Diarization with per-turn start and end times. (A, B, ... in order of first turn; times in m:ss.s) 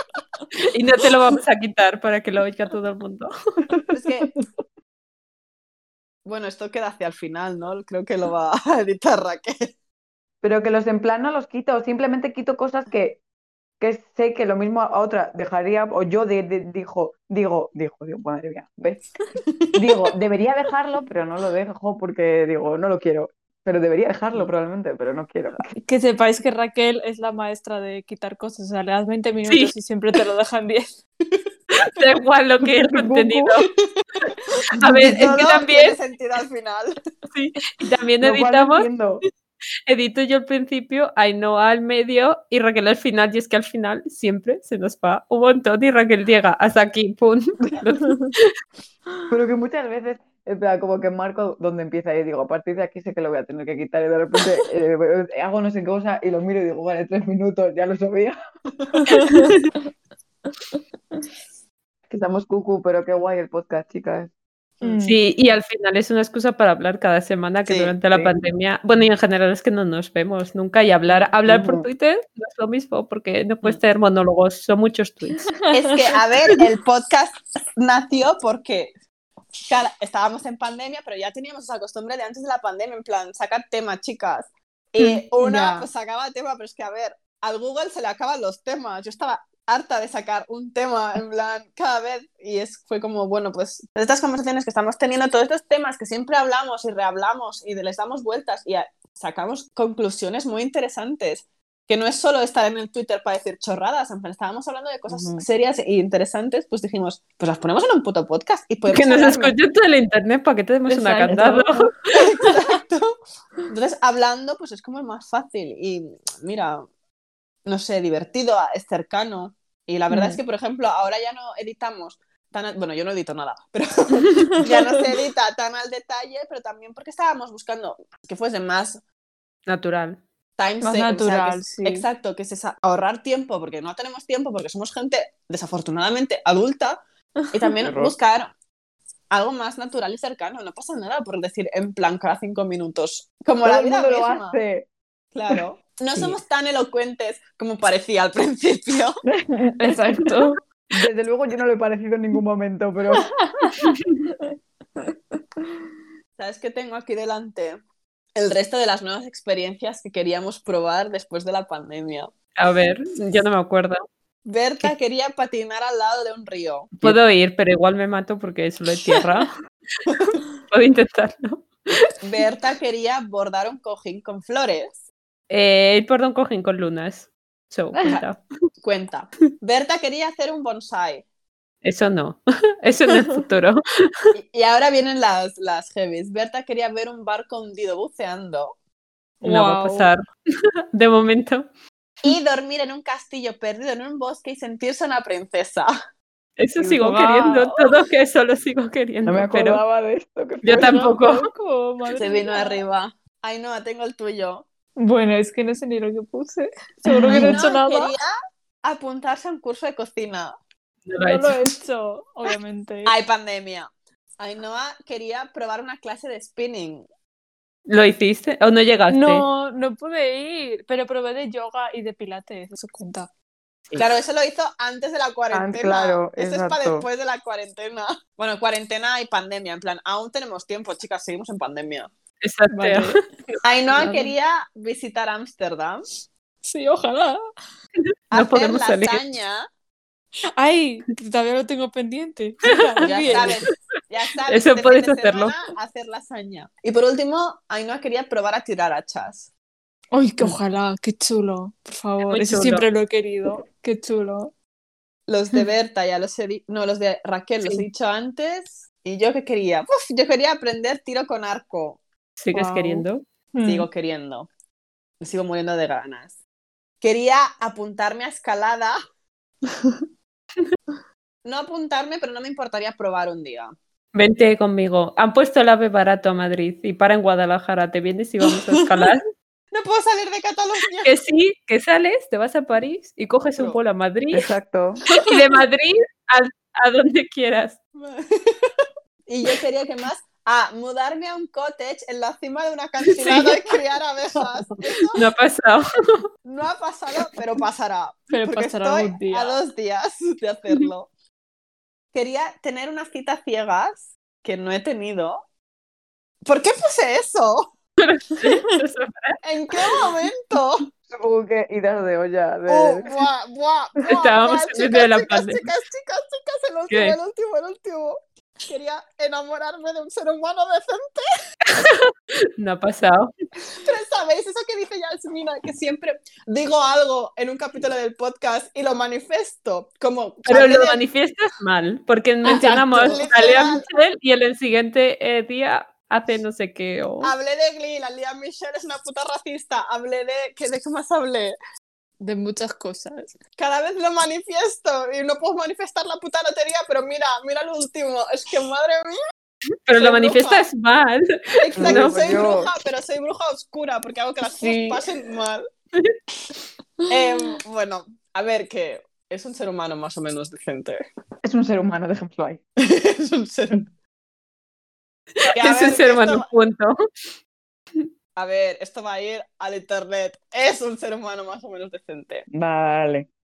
0:00.7-0:03.3 A
0:03.9-0:04.3 B
0:06.2-0:09.7 B
0:10.4-0:13.2 C
0:13.8-0:19.0 C
0:19.8-0:25.7 C
0:25.8-0:31.0 D
0:29.5-0:29.7 A
0:31.8-0:33.7 A
0:32.7-0:33.6 C
0:34.8-0:35.2 C
0:34.8-0:36.0 A
0:35.0-0:37.0 B
0:37.3-0:38.9 A
0:38.2-0:39.2 C
0:39.9-0:48.5 A
0:49.3-0:58.4 C
0:59.0-0:59.6 D
1:02.1-1:04.3 C
1:04.8-1:05.2 D
1:05.0-1:15.5 A
1:07.7-1:07.9 B
1:11.5-1:11.9 C
1:15.5-1:16.6 D
1:15.7-1:18.9 B
1:19.7-1:49.6 B
1:25.0-1:25.9 D
1:45.1-1:45.4 C
1:48.9-1:51.9 A
1:50.9-1:51.7 D
1:51.3-1:51.7 C
1:52.1-1:53.1 B
1:53.7-1:56.9 B
1:57.6-2:09.0 B
2:00.1-2:00.4 D
2:09.7-2:10.2 A
2:10.6-2:17.0 B
2:10.8-2:12.0 D
2:17.5-2:18.5 B
2:17.8-2:18.1 C
2:19.3-2:24.6 B
2:23.6-2:24.9 C
2:25.3-2:29.2 B
2:29.3-2:30.0 C
2:29.8-2:30.6 D
2:30.9-2:33.3 C
2:33.1-2:34.4 D
2:35.0-2:35.8 D
2:36.4-2:37.8 B
2:38.4-2:42.3 B
2:42.6-2:44.0 A
2:44.4-2:47.0 B
2:47.0-2:49.5 A
2:50.1-2:52.1 A
2:50.1-2:50.4 B
2:52.2-2:55.0 B
2:55.5-2:58.4 A
2:58.8-3:01.2 B
3:01.8-3:04.1 A
3:03.1-3:03.4 D
3:04.4-3:08.8 B
3:09.4-3:10.1 D
3:09.4-3:10.2 A
3:10.9-3:11.7 A
3:12.2-3:15.9 B
3:16.6-3:19.8 A
3:16.8-3:17.9 D
3:19.3-3:21.1 C
3:20.6-3:21.4 A
3:20.7-3:22.8 D
3:22.1-3:24.7 B
3:25.0-3:28.1 D
3:27.3-3:28.3 B
3:28.8-3:30.6 B
3:31.1-3:31.7 A
3:31.2-3:33.1 D
3:33.1-3:37.1 B
3:37.9-3:39.4 A
3:39.1-3:43.3 D
3:44.0-3:52.1 B
3:45.5-3:47.1 C
3:52.4-3:53.2 A
3:52.7-3:53.2 D
3:53.6-3:56.1 B
3:54.0-3:54.3 D
3:56.6-3:57.4 D
3:58.3-3:59.2 A
3:58.3-3:59.7 B
4:00.6-4:03.7 D
4:02.9-4:03.6 A
4:03.0-4:09.5 B
4:04.5-4:05.6 A
4:10.1-4:14.5 D
4:12.2-4:12.9 A
4:15.3-4:22.0 B
4:22.4-4:23.2 A
4:22.5-4:23.9 D
4:23.6-4:24.5 B
4:25.2-4:26.4 B
4:27.0-4:29.0 B
4:31.4-4:33.7 B
4:34.1-4:39.2 A
4:39.7-4:41.1 B
4:41.0-4:44.5 A
4:44.3-4:45.0 C
4:45.2-4:47.8 A
4:48.0-4:55.3 B
4:53.1-4:53.6 A
4:55.2-4:56.0 A
4:56.4-5:01.1 B
4:58.3-4:59.6 D
5:02.1-5:05.4 B
5:06.4-5:07.7 B
5:08.0-5:09.4 A
5:08.4-5:08.7 D
5:09.4-5:10.8 B
5:11.1-5:13.1 C
5:12.7-5:18.2 B
5:14.1-5:15.6 A
5:16.9-5:17.2 A
5:18.7-5:21.2 B
5:21.7-5:23.3 A
5:23.8-5:31.0 B
5:30.5-5:37.3 A
5:32.4-5:33.3 D
5:33.0-5:33.9 B
5:37.2-5:41.6 B
5:42.2-5:43.4 D
5:43.6-5:49.2 B
5:49.9-5:52.4 A
5:50.0-5:50.7 B
5:51.6-5:55.6 B
5:51.8-5:52.7 C
5:54.6-5:55.0 A
5:57.1-6:01.0 B
6:01.4-6:02.6 C
6:02.8-6:03.9 B
6:05.4-6:07.0 A
6:05.5-6:06.5 B
6:08.4-6:12.5 B
6:12.5-6:13.3 C